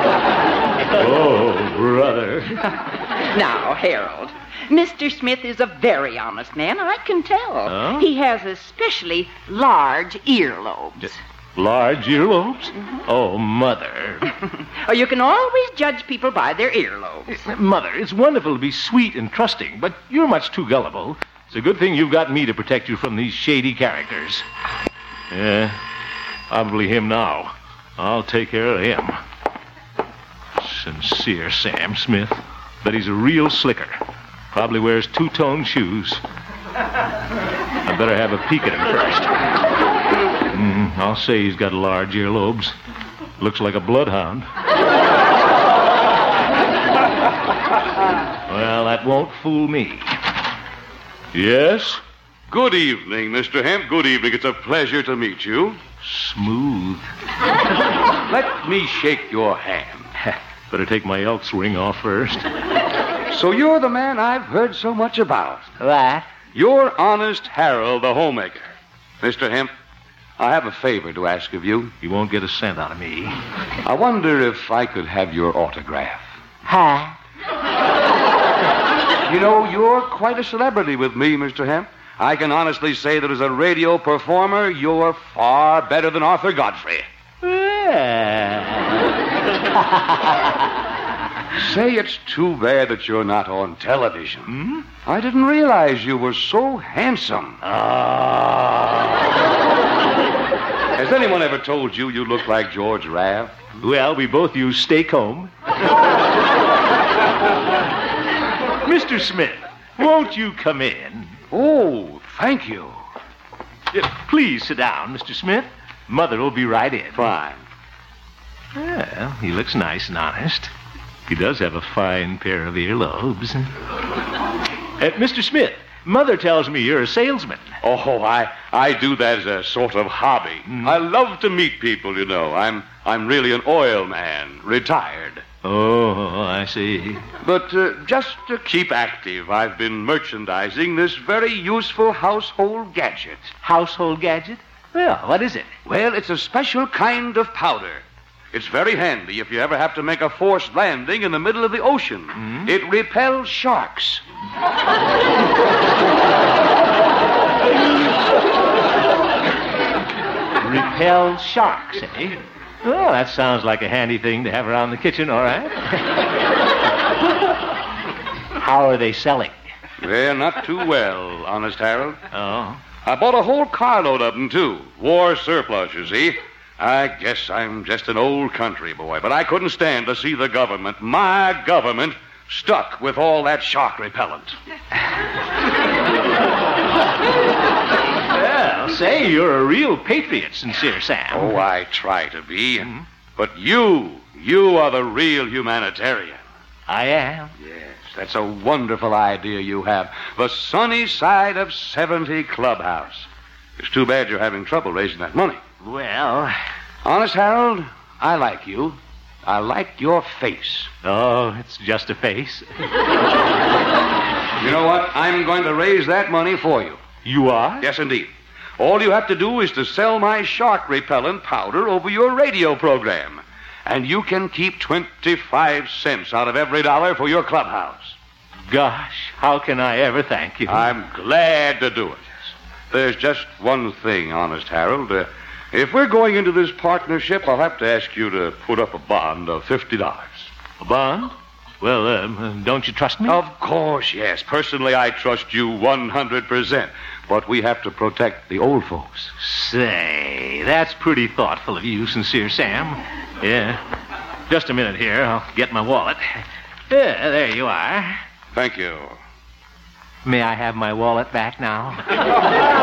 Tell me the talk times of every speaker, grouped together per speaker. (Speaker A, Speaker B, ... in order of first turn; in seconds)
Speaker A: 0.9-2.6, 7.7-8.1, 11.6-14.3, 17.3-24.4, 25.3-25.8, 26.5-29.2, 30.6-34.0, 34.5-36.2, 37.8-39.3, 40.5-42.8, 43.4-44.5, 48.5-50.1, 51.3-52.0, 56.0-57.1, 60.2-62.5, 65.8-66.3, 72.0-73.4, 76.7-77.2, 87.4-89.0, 89.8-90.4, 94.5-94.9, 97.6-99.2, 103.8-105.5, 108.8-111.4, 113.9-117.3, 118.8-120.7, 121.3-123.7, 125.0-127.7, 130.7-131.0, 135.6-137.3, 143.6-145.7, 152.4-152.7, 160.6-166.2, 168.6-169.6, 172.3-172.8, 188.3-191.6, 196.9-197.5, 205.8-206.6, 211.0-212.7, 217.2-217.9, 228.7-230.9, 240.8-243.4, 249.4-253.8, 254.5-258.2, 260.2-262.1
Speaker B: 3.3-11.2, 14.8-17.4
Speaker C: 52.5-55.8, 58.3-60.1, 63.3-65.7, 66.5-68.7, 69.2-69.7, 70.4-71.9, 73.8-76.3, 79.2-87.1, 91.6-94.5, 95.0-97.6, 101.0-103.7, 111.5-113.0, 117.2-117.6, 127.8-135.4, 137.4-143.6, 145.9-154.2, 170.0-172.2, 173.0-184.6, 191.3-196.4, 197.6-203.3, 203.8-205.6, 207.0-210.9, 214.6-217.0, 217.8-228.2, 230.7-232.3, 232.9-240.5, 243.3-249.3, 258.5-259.2